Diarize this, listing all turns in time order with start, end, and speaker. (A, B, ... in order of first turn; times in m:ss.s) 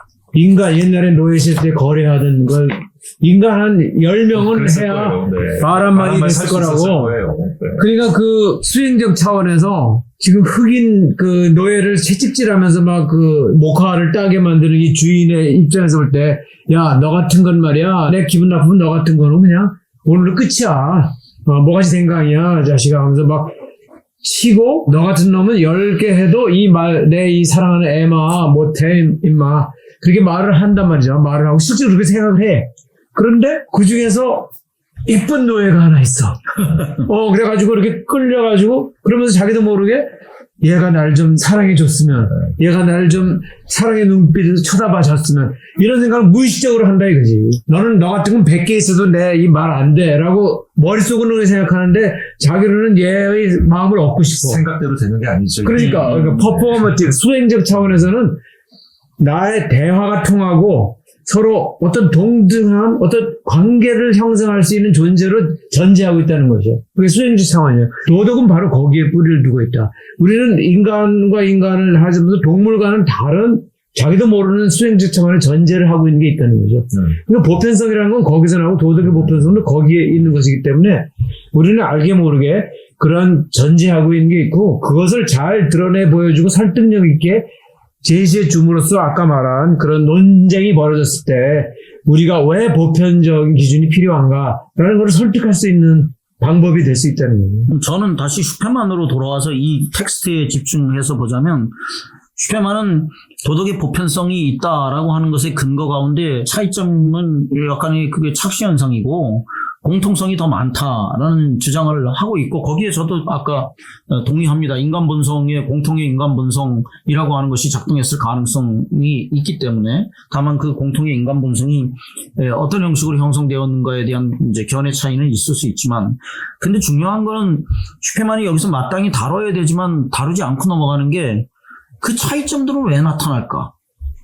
0:00.3-0:07.2 A
0:04.3-0:07.9 B
0:07.8-0:23.5 A
0:24.2-0:34.5 A
0:35.1-0:40.0 A
0:40.6-0:54.6 A
0:54.3-0:56.8 B
0:55.6-0:58.4 A
0:55.8-0:56.3 C
0:59.2-1:27.4 A
1:28.0-1:37.7 A
1:37.7-1:41.8 C
1:42.4-2:11.5 C
2:12.0-2:13.7 C